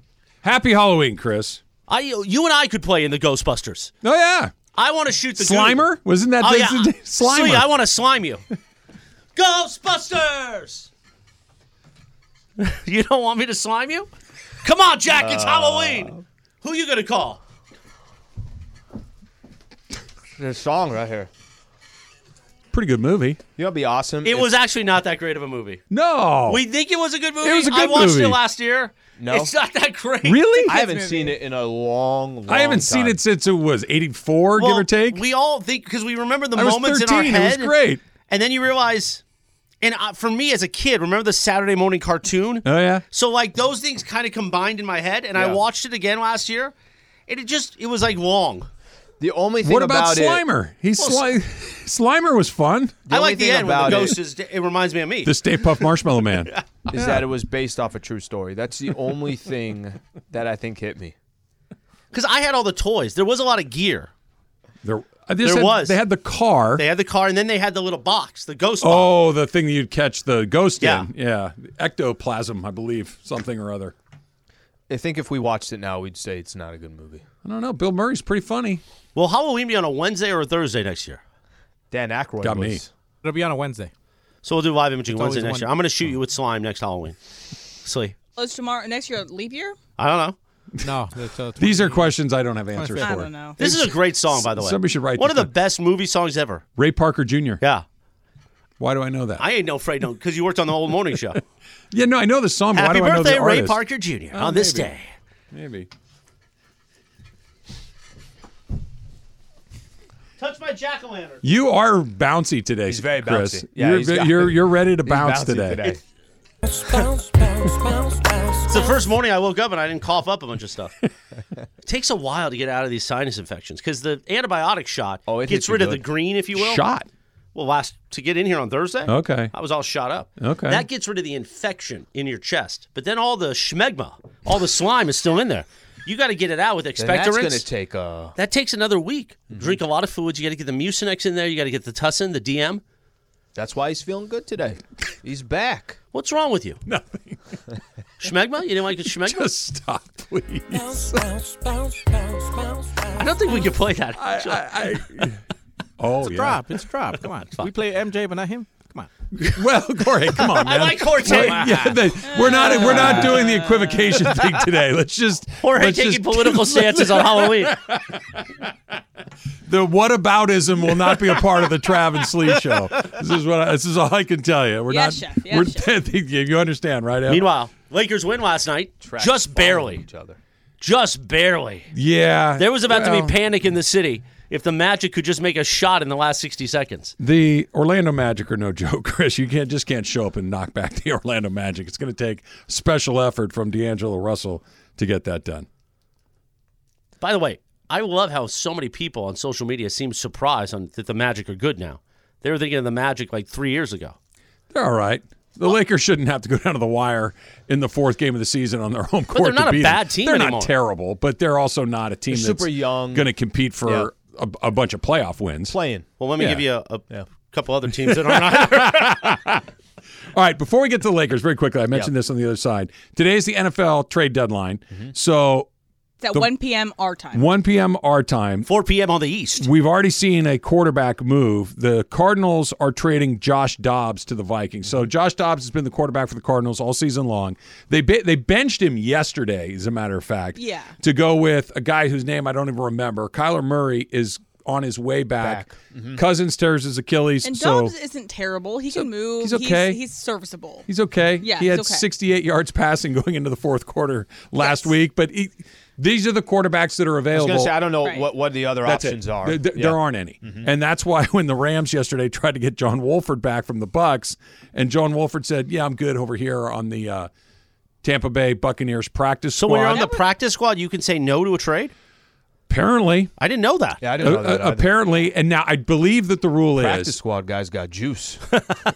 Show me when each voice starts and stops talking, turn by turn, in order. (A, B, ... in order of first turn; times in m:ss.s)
0:00.4-0:01.6 A
0:01.9-0:03.9 B
0:04.0-0:04.5 A
0:04.7-0:05.9 B
0:05.4-0:07.7 A
0:06.4-0:08.4 B
0:09.4-0:10.9 B
0:12.6-0:14.1 B
0:14.6-0:17.4 B
0:15.1-0:16.2 C
0:20.4-0:21.3 C
0:22.7-0:23.4 A
0:23.6-0:24.5 C
0:24.2-0:25.8 B
0:25.9-0:26.6 A
0:26.5-0:30.4 B
0:27.4-0:28.4 A
0:29.2-0:29.5 C
0:30.2-0:30.8 A
0:30.4-0:31.4 D
0:30.7-0:33.2 C
0:32.5-0:35.2 A
0:34.6-0:37.7 B
0:36.5-0:38.0 A
0:38.3-0:39.2 B
0:39.8-0:46.7 B
0:42.6-0:43.0 A
0:47.3-0:48.7 B
0:49.2-0:50.4 C
0:49.6-0:53.0 A
0:53.0-0:54.2 C
0:53.1-0:55.4 B
0:55.2-0:57.3 A
0:56.9-1:01.1 C
1:02.1-1:04.1 B
1:04.8-1:06.8 A
1:05.4-1:06.0 B
1:06.8-1:09.1 B
1:08.8-1:13.9 A
1:10.8-1:11.1 B
1:14.9-1:17.2 C
1:17.4-1:18.8 A
1:19.2-1:21.2 B
1:21.9-1:22.9 C
1:22.4-1:22.8 A
1:23.2-1:23.9 E
1:24.4-1:27.2 B
1:25.1-1:25.7 E
1:27.8-1:28.1 B
1:28.4-1:29.8 D
1:30.0-1:30.4 B
1:30.8-1:32.1 E
1:31.6-1:35.5 A
1:32.7-1:33.3 E
1:33.0-1:33.6 D
1:33.6-1:36.6 B
1:36.8-1:37.6 A
1:38.8-1:39.4 A
1:39.4-1:41.4 B
1:41.9-1:43.8 A
1:42.7-1:45.0 B
1:44.3-1:44.9 A
1:45.5-1:45.9 A
1:50.4-1:51.4 B
1:51.4-1:55.8 A
1:52.9-1:56.0 C
1:56.8-1:57.1 B
1:57.6-1:58.0 A
1:58.6-2:00.9 B
2:01.8-2:06.8 B
2:05.2-2:06.0 C
2:06.5-2:07.1 A
2:07.5-2:17.7 B
2:09.0-2:09.5 A
2:10.4-2:10.8 A
2:17.0-2:18.4 C
2:18.4-2:22.8 B
2:19.5-2:19.8 C
2:23.5-2:26.0 C
2:26.1-2:26.8 B
2:26.8-2:27.4 A
2:28.2-2:29.5 B
2:29.2-2:32.1 A
2:33.1-2:34.9 B
2:34.2-2:35.4 A
2:36.0-2:36.6 A
2:36.2-2:39.1 E
2:39.3-2:48.6 A
2:40.4-2:41.9 B
2:42.2-2:44.2 D
2:42.7-2:43.2 B
2:45.6-2:47.8 B
2:49.7-2:57.5 A
2:54.9-2:55.9 D
2:57.3-3:00.0 B
2:59.0-3:00.4 C
3:00.8-3:01.9 B
3:01.9-3:03.4 A
3:02.6-3:07.1 B
3:07.2-3:15.7 A
3:17.2-3:24.2 B
3:24.7-3:35.7 A
3:29.3-3:30.7 B
3:32.3-3:33.3 C
3:33.8-3:34.1 C
3:35.7-3:36.0 C
3:36.2-3:39.4 B
3:38.0-3:39.6 A
3:40.3-3:45.7 A
3:46.2-3:47.4 D
3:47.3-3:48.7 A
3:48.7-3:49.7 B
3:49.6-4:07.9 A
4:00.6-4:01.0 D
4:05.4-4:06.2 C
4:07.4-4:10.9 D
4:08.9-4:10.0 A
4:10.9-4:17.8 A
4:11.4-4:12.0 D
4:14.6-4:14.9 D
4:17.3-4:20.7 C
4:18.0-4:18.3 D
4:18.8-4:27.3 A
4:28.0-4:30.1 A
4:29.6-4:31.9 B
4:29.9-4:30.2 D
4:32.7-4:33.3 A
4:33.4-4:34.0 B
4:34.0-4:35.2 C
4:34.2-4:37.2 A
4:36.8-4:38.4 C